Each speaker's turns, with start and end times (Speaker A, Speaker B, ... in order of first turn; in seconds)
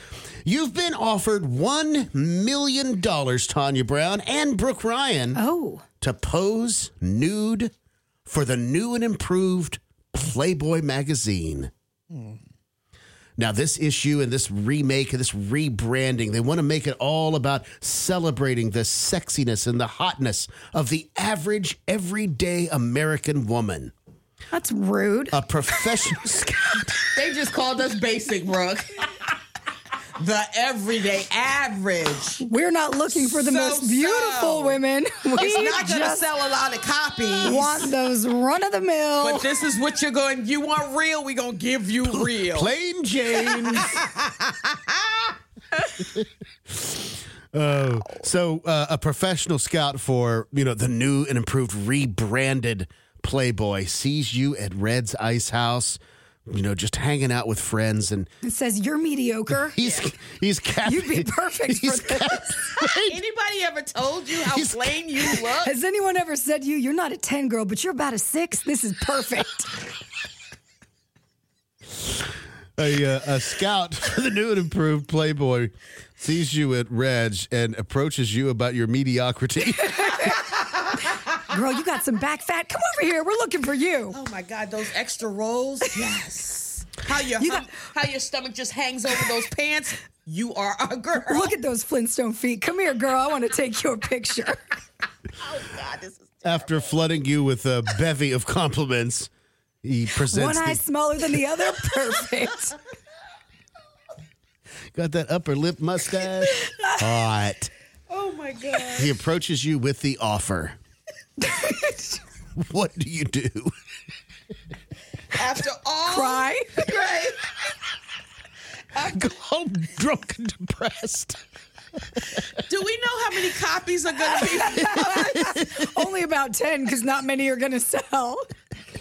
Speaker A: 0.5-5.4, 6.0-7.7, 8.3-11.7, 13.4-23.9, 25.3-27.0, 42.0-44.0, 46.0-58.3, 59.5-63.2, 64.5-65.0, 72.8-80.4, 96.4-99.3, 99.8-100.8, 105.0-107.7, 109.0-110.8, 112.6-113.7, 119.1-121.4
Speaker B: 5.3-5.8, 24.5-25.4, 32.4-36.2, 37.4-39.5, 58.4-59.8, 60.8-62.6, 65.6-69.7, 79.9-80.2, 81.5-84.2, 87.4-87.7, 91.2-94.6, 100.2-102.8, 111.5-112.2, 116.1-116.9, 124.6-128.5
Speaker C: 27.1-29.0, 30.2-32.4, 33.1-34.8, 35.3-37.9, 39.2-42.7, 43.4-45.3, 59.8-60.1, 63.1-65.7, 84.1-91.5, 95.4-97.0, 106.5-106.7, 108.1-109.1, 115.3-117.4, 122.7-125.5